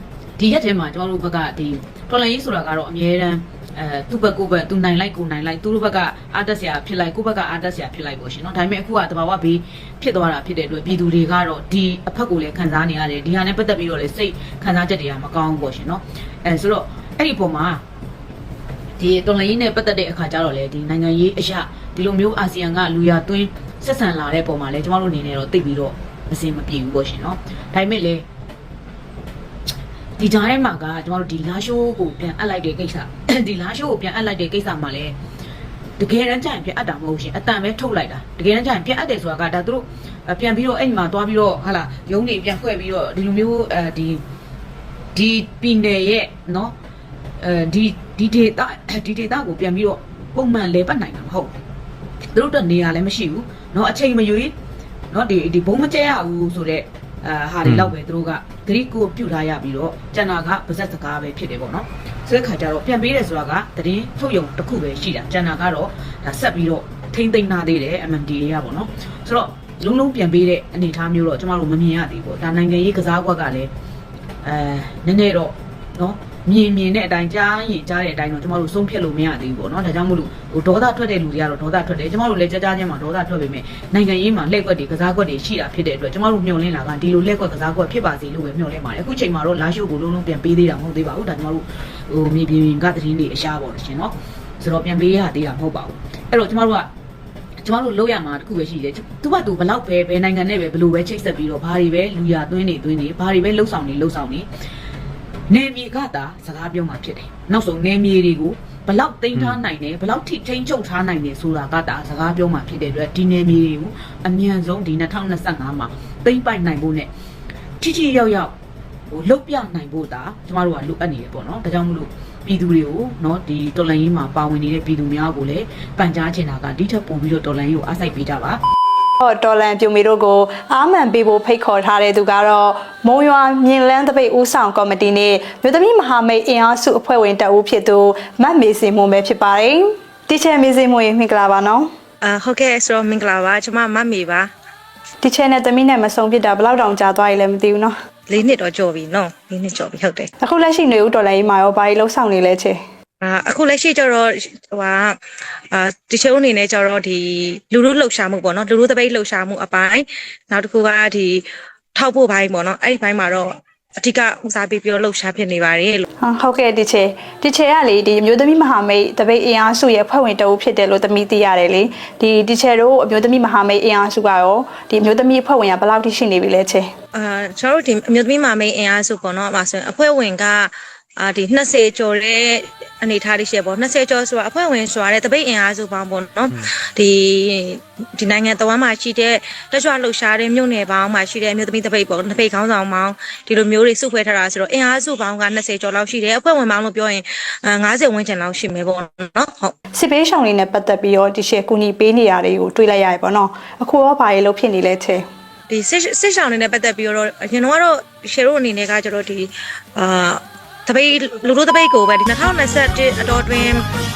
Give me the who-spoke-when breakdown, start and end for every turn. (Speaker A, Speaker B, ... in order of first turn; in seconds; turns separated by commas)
Speaker A: 0.4-17.8, Speaker A: 19.0-28.2, Speaker A: 30.2-35.1, Speaker A: 36.0-44.2, Speaker A: 45.1-46.7, Speaker A: 47.4-51.5, Speaker A: 52.3-54.5, Speaker A: 55.1-73.7, Speaker A: 74.4-96.9, Speaker A: 97.6-104.5, Speaker A: 105.5-117.1, Speaker A: 117.8-118.5, Speaker A: 119.1-128.6, Speaker B: 129.2-141.9, Speaker C: 142.2-144.5, Speaker B: 145.2-147.9, Speaker C: 148.3-150.3, Speaker B: 150.4-152.8, Speaker C: 153.2-155.2, Speaker C: 155.7-161.3, Speaker C: 161.9-163.5, Speaker C: 164.0-166.0, Speaker B: 166.2-176.8, Speaker C: 177.1-199.7, Speaker B: 199.9-205.2, Speaker C: 205.7-213.8